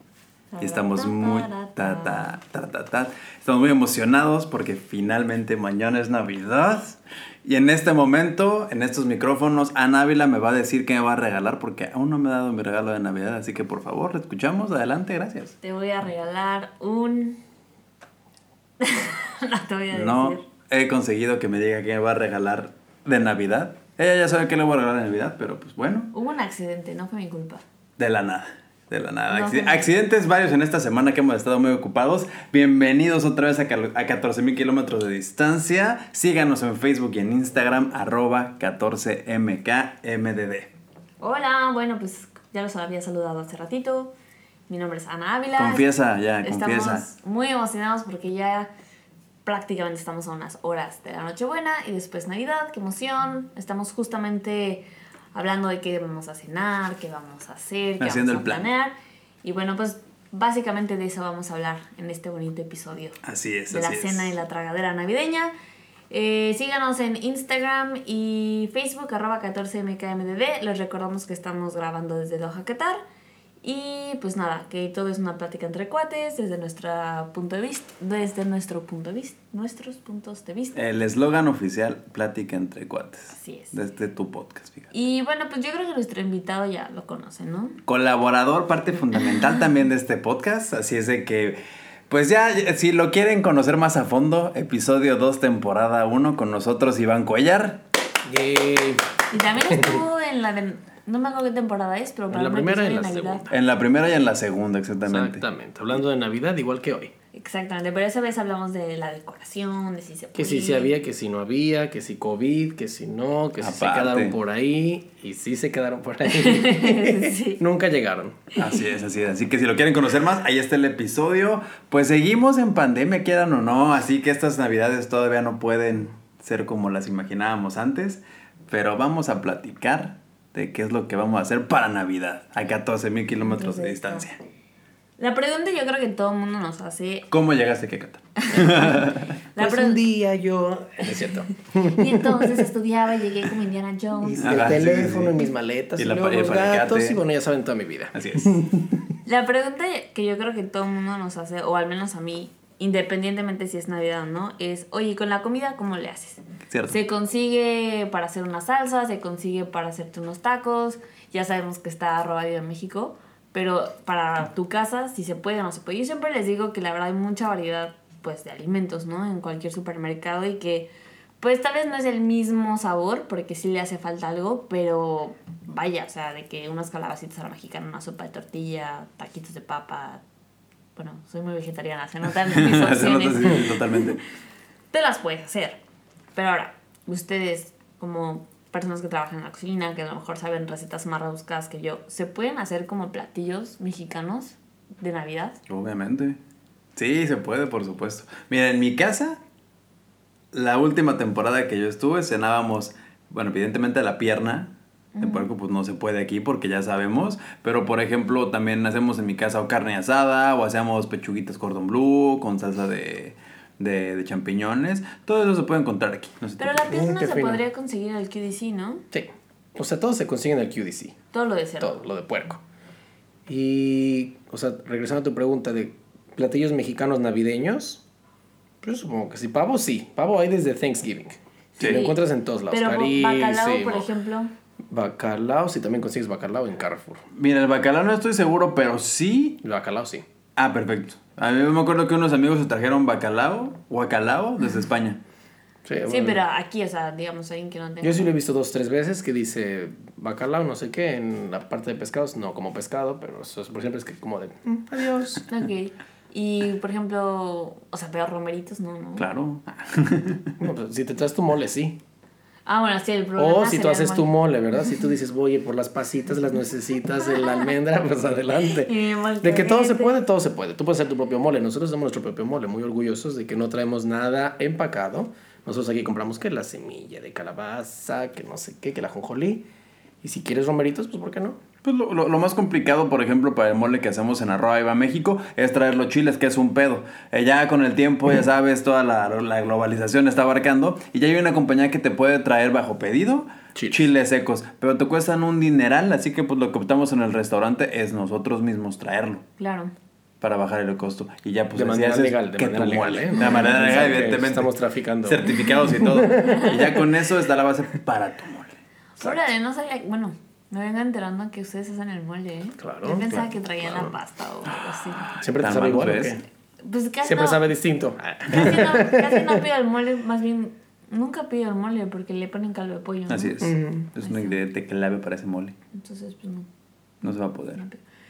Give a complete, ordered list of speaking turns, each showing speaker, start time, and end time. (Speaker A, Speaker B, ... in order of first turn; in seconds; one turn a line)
Speaker A: 0.5-2.4
Speaker B: 0.6-15.5
Speaker A: 15.6-17.4
Speaker A: 18.8-20.4
Speaker B: 19.9-26.1
Speaker A: 26.1-27.6
Speaker B: 28.0-40.7
Speaker A: 29.3-29.9
Speaker A: 41.2-44.1
Speaker A: 44.7-45.8
Speaker B: 45.5-47.1
Speaker A: 46.4-48.7
Speaker A: 49.4-63.2
Speaker B: 58.0-58.7
Speaker B: 63.2-64.3
Speaker A: 63.7-65.5
Speaker A: 66.1-73.0
Speaker A: 73.6-80.8
Speaker B: 80.7-84.9
Speaker A: 83.3-83.7
Speaker A: 84.9-87.8
Speaker B: 87.9-91.6
Speaker B: 92.1-97.8
Speaker C: 98.2-99.0
Speaker A: 99.3-103.4
Speaker C: 99.7-100.0
Speaker C: 102.3-103.5
Speaker B: 103.5-105.4
Speaker C: 105.0-107.1
Speaker A: 107.3-110.9
Speaker C: 110.3-118.5
Speaker B: 113.6-114.3
Speaker A: 116.3-117.6
Speaker B: 118.5-134.3
Speaker A: 133.4-134.2
Speaker A: 135.2-137.3
Speaker B: 137.3-139.4
Speaker A: 138.4-140.0
Speaker C: 139.6-142.7
Speaker A: 141.8-144.6
Speaker C: 144.2-149.0
Speaker B: 144.4-145.4
Speaker B: 145.9-147.2
Speaker B: 148.1-148.6
Speaker A: 149.2-170.9
Speaker B: 156.7-157.0
Speaker A: 171.4-180.2
Speaker A: 180.9-184.1
Speaker B: 182.5-184.2
Speaker A: 184.9-185.8
Speaker A: 186.3-195.6
Speaker B: 195.7-196.4
Speaker B: 196.9-199.4
Speaker B: 200.5-216.9
Speaker A: 205.2-205.5
Speaker A: 216.6-219.0
Speaker C: 216.9-217.6
Speaker C: 219.1-221.2
Speaker A: 221.3-222.0
Speaker C: 221.8-222.6
Speaker C: 223.5-228.0
Speaker C: 228.8-234.1
Speaker A: 231.8-232.2
Speaker B: 231.8-232.0
Speaker A: 232.7-234.5
Speaker C: 234.9-237.2
Speaker B: 237.3-239.6
Speaker C: 239.6-240.2
Speaker B: 240.6-245.2
Speaker C: 245.8-246.4
Speaker A: 246.1-248.3
Speaker C: 248.0-255.4
Speaker A: 255.5-259.3
Speaker B: 259.2-260.5
Speaker C: 260.6-262.0
Speaker A: 262.6-264.3
Speaker C: 263.4-279.6
Speaker A: 267.3-267.6
Speaker A: 268.7-270.2
Speaker C: 280.2-281.6
Speaker B: 281.8-299.4
Speaker C: 293.7-294.1
Speaker A: 299.6-299.9
Speaker B: 300.4-304.7
Speaker C: 301.7-307.0
Speaker B: 305.2-308.8
Speaker A: 306.3-306.8
Speaker A: 309.2-315.4
Speaker C: 312.8-314.1
Speaker B: 315.3-316.4
Speaker C: 315.4-316.4
Speaker A: 316.8-317.7
Speaker C: 317.2-319.6
Speaker A: 318.5-323.6
Speaker B: 323.3-325.8
Speaker C: 323.6-324.1
Speaker A: 324.2-324.6
Speaker A: 325.9-326.7
Speaker B: 327.2-327.8